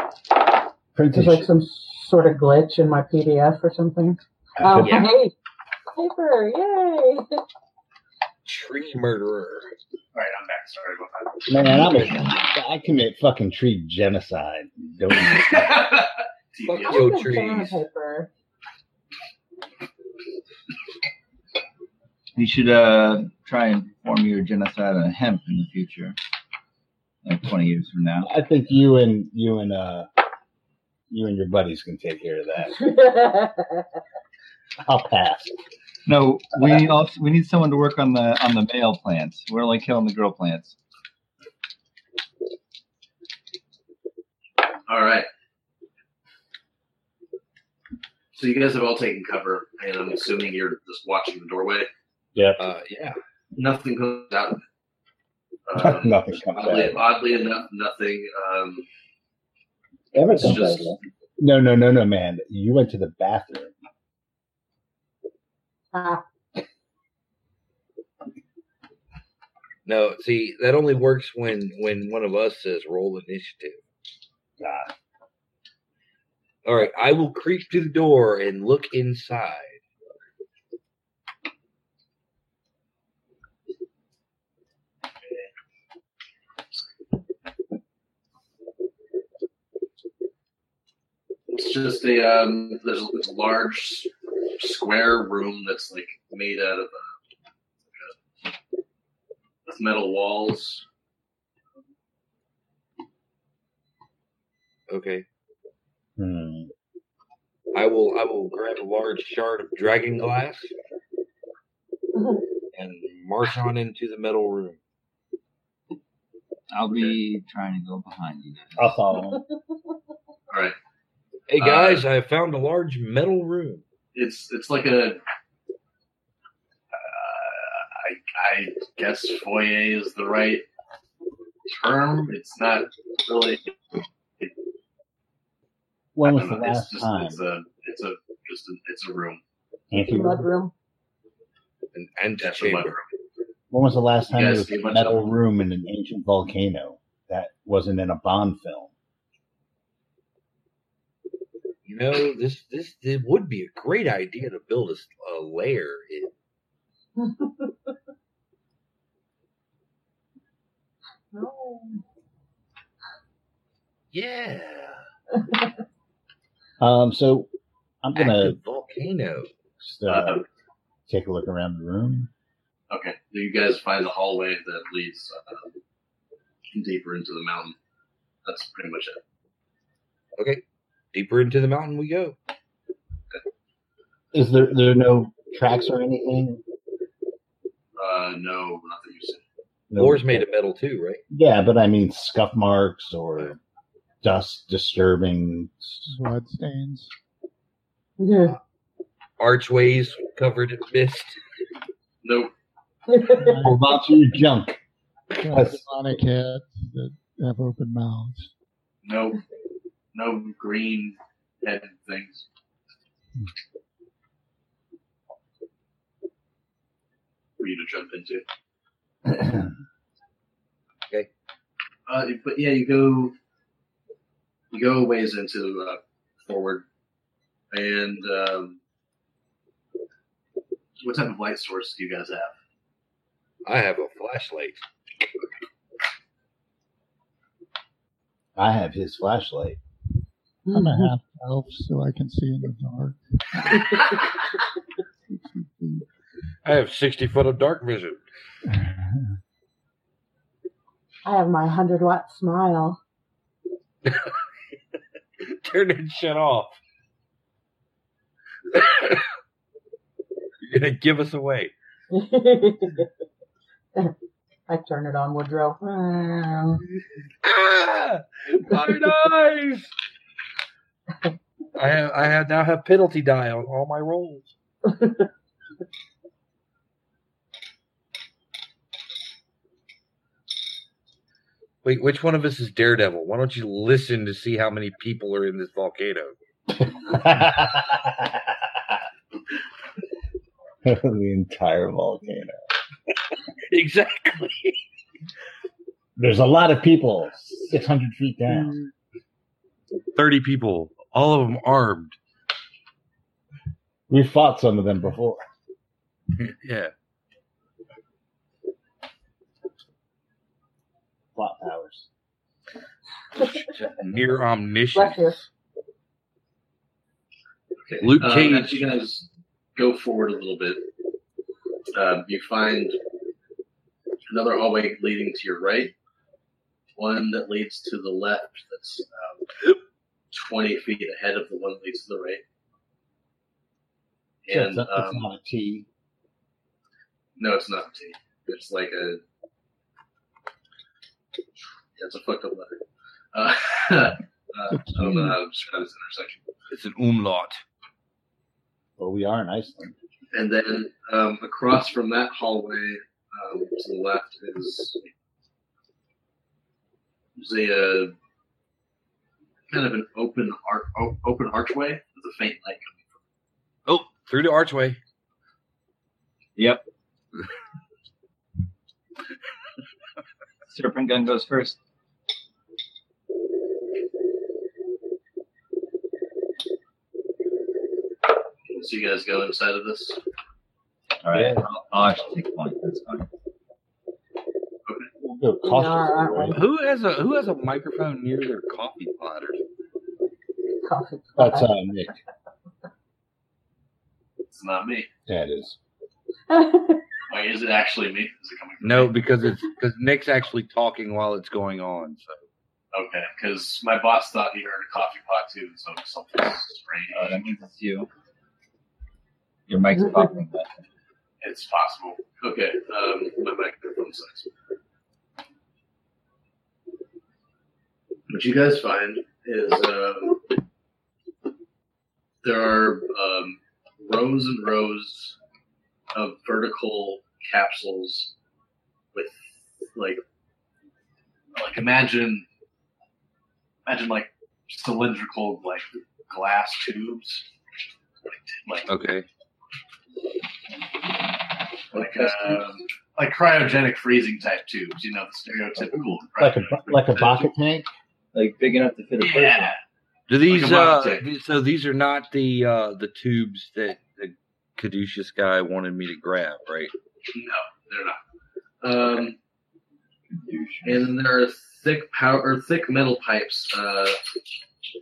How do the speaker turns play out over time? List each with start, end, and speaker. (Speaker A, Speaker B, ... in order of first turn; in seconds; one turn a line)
Speaker A: 0.9-1.5
Speaker B: 1.1-5.3
Speaker A: 4.6-5.1
Speaker C: 4.8-5.1
Speaker B: 5.9-7.4
Speaker C: 8.4-9.7
Speaker D: 10.1-11.4
Speaker A: 11.5-15.9
Speaker D: 15.1-17.1
Speaker C: 16.6-17.8
Speaker B: 16.9-18.3
Speaker E: 22.4-26.2
Speaker E: 27.2-28.3
Speaker A: 28.2-30.1
Speaker A: 31.1-32.8
Speaker B: 32.7-33.8
Speaker A: 34.8-35.5
Speaker E: 36.0-40.8
Speaker D: 44.9-45.3
Speaker D: 48.3-51.9
Speaker A: 52.3-52.6
Speaker C: 52.6-53.2
Speaker D: 53.5-54.6
Speaker D: 55.7-58.8
Speaker A: 55.8-57.0
Speaker A: 60.1-63.7
Speaker D: 60.3-61.0
Speaker B: 65.9-66.2
Speaker C: 69.9-73.8
Speaker A: 74.6-74.9
Speaker C: 76.6-79.8
Speaker D: 91.5-97.1
Speaker D: 99.7-100.8
Speaker C: 104.9-105.2
Speaker A: 106.2-106.7
Speaker C: 107.7-110.7
Speaker B: 112.1-112.4
Speaker C: 112.7-114.8
Speaker E: 116.7-119.0
Speaker A: 118.8-119.4
Speaker D: 120.5-120.7
Speaker C: 121.5-123.8
Speaker D: 121.6-122.0
Speaker D: 124.1-125.2
Speaker D: 126.9-130.6
Speaker D: 131.7-133.7
Speaker A: 136.1-137.4
Speaker D: 136.2-139.4
Speaker A: 139.9-140.4
Speaker B: 139.9-140.7
Speaker C: 141.9-142.9
Speaker D: 142.4-143.1
Speaker A: 143.7-148.9
Speaker D: 144.3-145.3
Speaker C: 151.8-156.3
Speaker B: 157.2-157.5
Speaker B: 161.3-162.0
Speaker C: 164.1-165.1
Speaker A: 166.8-167.5
Speaker A: 168.0-168.6
Speaker C: 168.2-169.5
Speaker A: 169.8-170.4
Speaker D: 170.1-170.4
Speaker A: 171.1-172.3
Speaker D: 172.9-175.7
Speaker D: 176.7-177.8
Speaker D: 178.4-179.2
Speaker C: 180.4-180.6
Speaker C: 181.1-182.4
Speaker A: 184.3-186.6
Speaker D: 188.0-189.4
Speaker A: 189.9-190.4
Speaker C: 189.9-191.2
Speaker A: 191.3-193.6
Speaker A: 194.2-196.1
Speaker F: 196.1-197.1
Speaker B: 198.2-198.6
Speaker C: 199.4-201.4
Speaker D: 202.2-202.5
Speaker B: 203.1-203.5
Speaker A: 203.6-204.8
Speaker F: 205.4-208.5
Speaker A: 205.5-205.9
Speaker D: 209.0-209.4
Speaker D: 210.1-212.4
Speaker D: 217.6-218.4
Speaker A: 219.3-219.7
Speaker D: 222.1-223.3
Speaker D: 224.7-226.8
Speaker D: 227.7-228.8
Speaker D: 231.0-232.5
Speaker C: 233.6-234.8
Speaker A: 238.6-239.8
Speaker F: 240.7-243.8
Speaker F: 245.3-246.1
Speaker C: 246.6-248.2
Speaker F: 248.7-249.1
Speaker B: 251.2-253.0
Speaker C: 254.1-254.4
Speaker C: 255.4-256.8
Speaker C: 258.7-259.3
Speaker C: 260.6-261.7
Speaker B: 262.1-263.1
Speaker B: 264.7-266.8
Speaker C: 267.4-269.9
Speaker C: 271.8-274.5
Speaker B: 274.9-275.2
Speaker C: 281.8-286.3
Speaker A: 286.8-288.6
Speaker A: 290.8-292.6
Speaker C: 293.7-294.8
Speaker A: 296.2-298.7
Speaker C: 300.1-302.1
Speaker A: 304.1-305.4
Speaker C: 306.3-306.9
Speaker A: 311.3-312.1
Speaker C: 313.4-315.3
Speaker B: 314.9-315.4
Speaker D: 317.8-320.8
Speaker C: 318.0-318.8
Speaker D: 321.9-323.0
Speaker D: 324.3-325.9
Speaker D: 326.9-329.4
Speaker D: 330.3-332.4
Speaker D: 334.4-335.2
Speaker A: 334.5-335.9
Speaker D: 337.4-339.2
Speaker D: 341.9-342.8
Speaker D: 343.3-346.4
Speaker F: 344.7-345.4
Speaker C: 346.7-347.6
Speaker A: 349.0-349.9
Speaker D: 350.3-355.1
Speaker D: 357.4-358.1
Speaker D: 359.7-363.2
Speaker C: 363.9-365.0
Speaker E: 366.6-366.8
Speaker E: 370.7-371.8
Speaker D: 378.7-380.2
Speaker E: 381.2-383.3
Speaker A: 381.3-381.6
Speaker A: 385.2-386.6
Speaker B: 385.6-386.6
Speaker C: 386.5-389.6
Speaker B: 390.8-391.7
Speaker A: 391.4-392.1
Speaker D: 394.5-395.1
Speaker A: 395.3-395.8
Speaker B: 396.5-397.0
Speaker D: 397.3-399.1
Speaker C: 398.8-402.4
Speaker D: 402.9-407.4
Speaker E: 407.1-408.1
Speaker E: 409.7-410.8
Speaker D: 411.4-414.5
Speaker D: 418.3-420.4
Speaker D: 422.4-425.4
Speaker D: 426.1-428.3
Speaker D: 429.1-430.2
Speaker D: 431.6-432.4
Speaker D: 433.9-437.5
Speaker D: 438.3-438.9
Speaker C: 438.9-439.2
Speaker D: 441.9-447.5
Speaker E: 441.9-442.6
Speaker A: 446.4-447.9
Speaker E: 448.3-449.7
Speaker D: 449.2-449.8
Speaker C: 450.3-456.9
Speaker D: 450.5-451.2
Speaker D: 457.3-458.2
Speaker D: 458.8-459.4
Speaker E: 460.3-461.1
Speaker D: 460.8-464.2